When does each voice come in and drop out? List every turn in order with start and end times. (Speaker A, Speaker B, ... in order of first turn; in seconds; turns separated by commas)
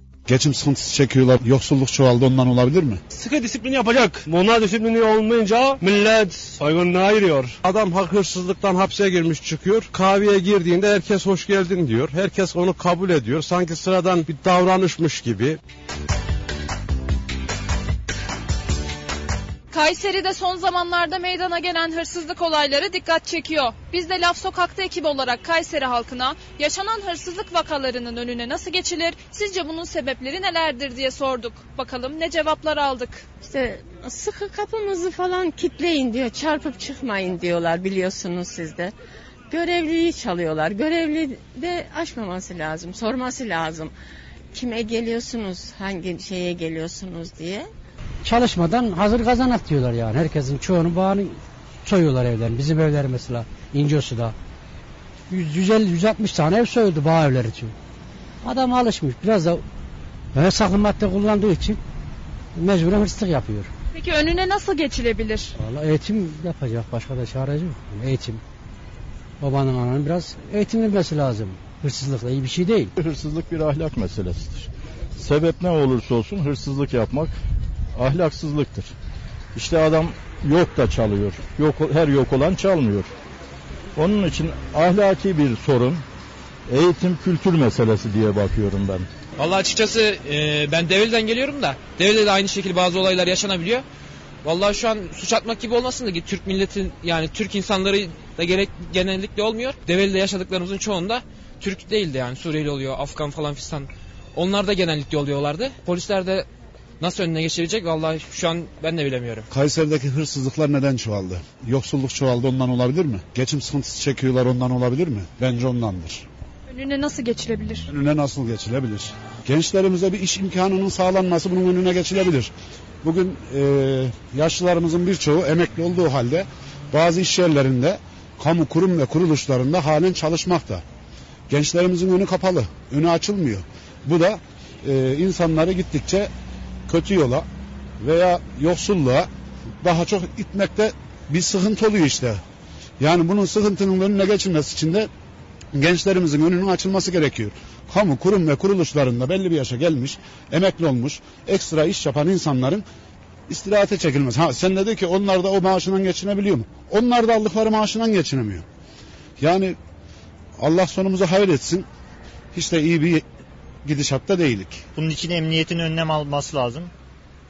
Speaker A: 0.3-3.0, Speaker B: 3.1-7.6, Speaker C: 7.7-15.6, Speaker D: 19.7-33.3, Speaker E: 33.4-38.9, Speaker E: 39.5-43.9, Speaker E: 44.5-47.7, Speaker F: 48.2-54.3, Speaker F: 55.3-57.7, Speaker F: 58.4-59.6, Speaker F: 60.3-61.8, Speaker F: 62.5-63.7, Speaker D: 63.9-65.5, Speaker F: 65.6-68.4, Speaker F: 69.4-72.9, Speaker G: 72.9-77.3, Speaker G: 77.9-78.9, Speaker G: 79.5-83.1, Speaker G: 83.9-86.0, Speaker G: 86.7-89.1, Speaker H: 89.4-93.8, Speaker H: 94.4-106.5, Speaker H: 107.0-109.5, Speaker A: 109.5-116.2, Speaker D: 116.7-117.9, Speaker A: 117.9-122.5, Speaker A: 123.0-130.8, Speaker A: 131.5-136.3, Speaker A: 136.9-137.4, Speaker A: 138.0-139.3, Speaker A: 139.8-142.4, Speaker A: 143.0-145.1, Speaker A: 145.7-152.8, Speaker A: 153.5-158.6, Speaker A: 159.4-159.8, Speaker A: 160.6-161.9, Speaker A: 162.5-163.2, Speaker A: 163.8-164.8, Speaker I: 164.9-166.9